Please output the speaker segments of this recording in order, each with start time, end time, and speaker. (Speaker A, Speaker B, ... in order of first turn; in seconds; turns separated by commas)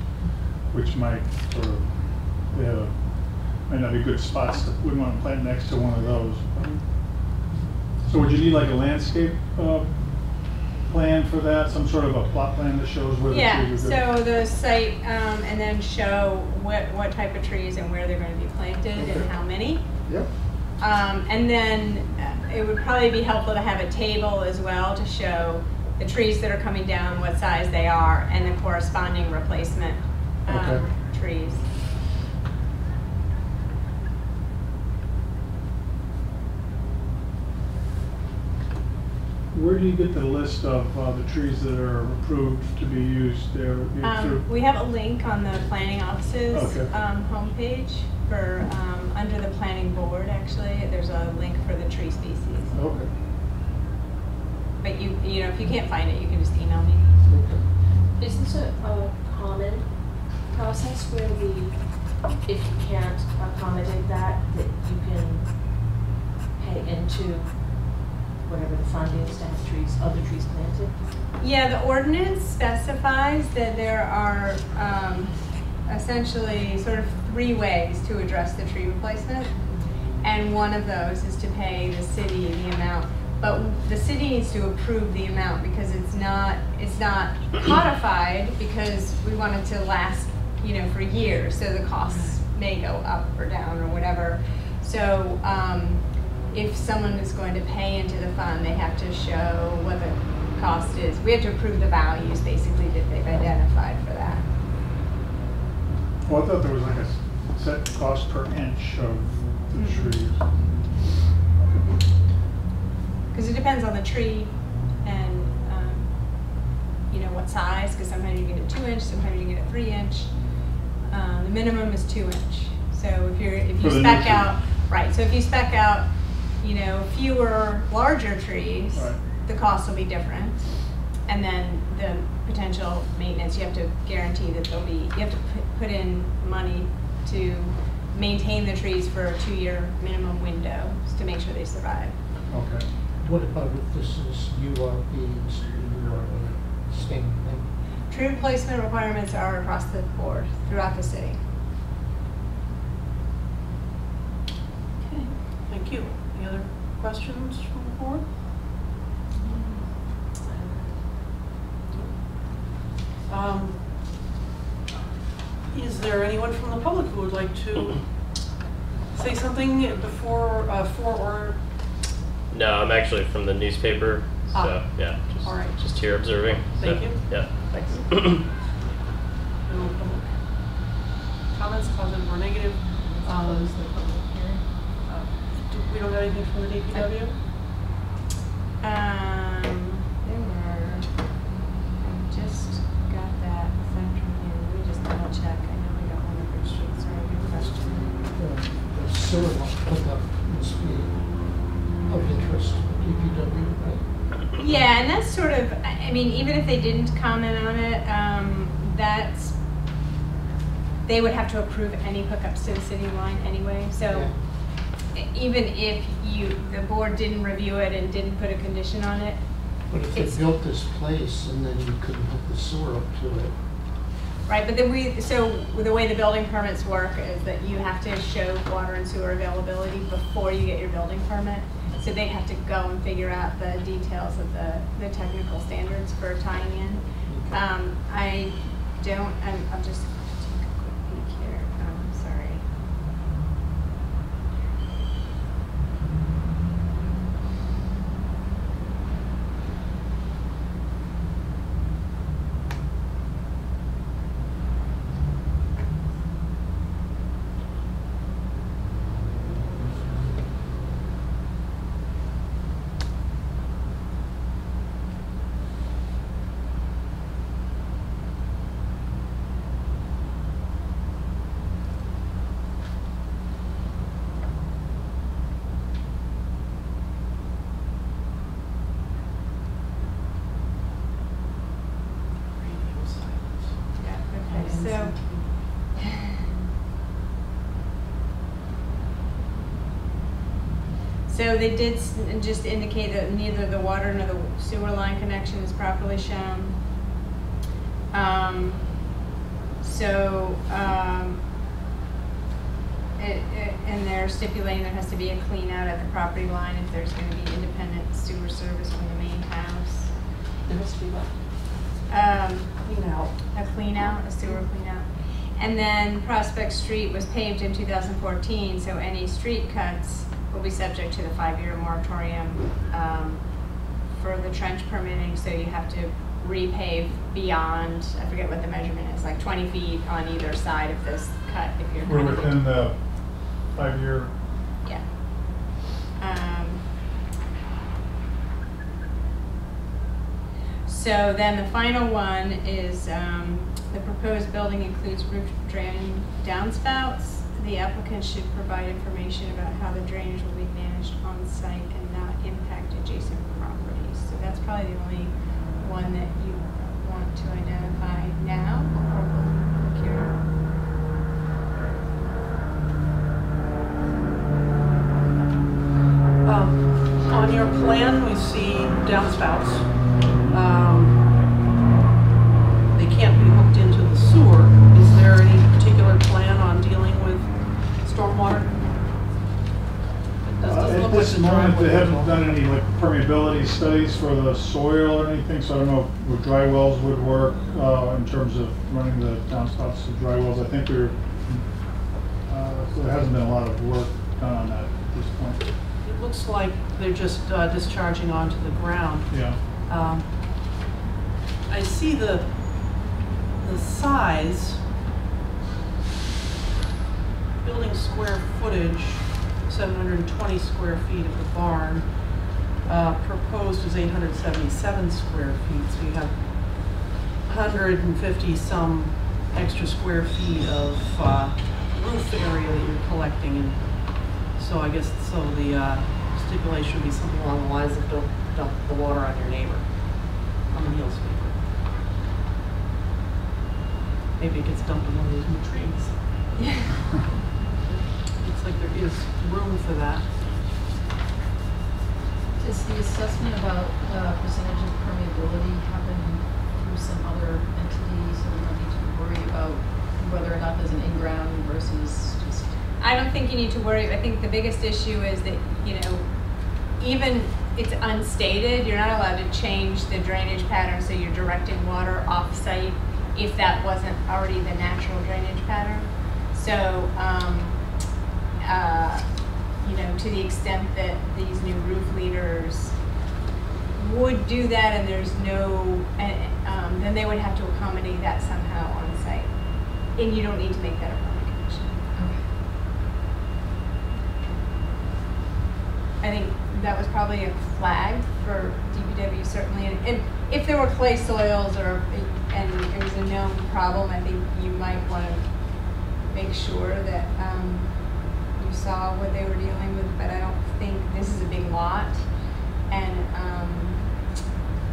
Speaker A: 0.7-2.9, Speaker A: 3.6-6.8, Speaker A: 8.1-9.9, Speaker A: 10.4-14.1, Speaker B: 13.3-19.9, Speaker C: 19.0-19.3, Speaker B: 20.8-31.7, Speaker A: 30.5-30.8, Speaker A: 39.5-44.5, Speaker B: 44.0-52.8, Speaker A: 46.5-46.9, Speaker A: 52.7-53.1, Speaker B: 54.8-57.1, Speaker C: 57.2-57.7, Speaker D: 57.9-65.9, Speaker D: 66.6-71.0, Speaker B: 71.4-104.5, Speaker D: 92.0-92.4, Speaker A: 106.2-110.5, Speaker B: 109.8-110.2, Speaker B: 113.3-120.4, Speaker B: 121.1-142.2, Speaker A: 123.8-124.5, Speaker A: 128.9-129.2, Speaker A: 142.5-142.9, Speaker C: 143.2-147.7, Speaker B: 148.1-151.4, Speaker E: 155.0-155.4, Speaker F: 155.7-158.3, Speaker E: 159.3-159.9, Speaker D: 160.4-161.2, Speaker F: 161.9-162.7, Speaker F: 163.3-164.2, Speaker F: 165.7-168.5, Speaker F: 169.1-171.7, Speaker G: 172.5-178.4, Speaker F: 174.5-178.7, Speaker F: 179.6-180.8, Speaker F: 181.5-183.8, Speaker E: 182.9-184.7, Speaker F: 185.0-187.4, Speaker B: 188.8-191.4, Speaker B: 192.0-198.2, Speaker C: 198.3-204.1, Speaker B: 204.5-209.6, Speaker B: 211.1-220.4, Speaker C: 214.1-214.4, Speaker C: 219.9-223.6, Speaker B: 224.5-242.6, Speaker C: 237.3-237.6, Speaker F: 282.5-283.9, Speaker B: 284.0-285.7, Speaker D: 284.4-286.7, Speaker B: 291.3-296.8, Speaker B: 298.1-299.1, Speaker B: 299.8-301.4, Speaker B: 303.2-310.2, Speaker D: 310.6-311.4, Speaker B: 312.1-312.9, Speaker F: 312.8-314.6, Speaker B: 313.5-332.6, Speaker A: 332.0-334.3, Speaker B: 334.8-336.9, Speaker B: 340.9-360.4, Speaker F: 366.4-371.2, Speaker F: 372.9-378.8, Speaker F: 380.4-382.5, Speaker A: 380.6-395.6, Speaker F: 396.0-400.3, Speaker A: 399.3-399.6, Speaker F: 401.7-404.9, Speaker F: 407.6-431.7, Speaker F: 434.4-436.5, Speaker B: 436.6-436.9, Speaker F: 437.8-440.3, Speaker E: 442.6-452.9, Speaker B: 453.0-467.9, Speaker B: 468.6-473.0, Speaker B: 473.9-482.1, Speaker E: 482.2-482.5, Speaker B: 486.2-504.2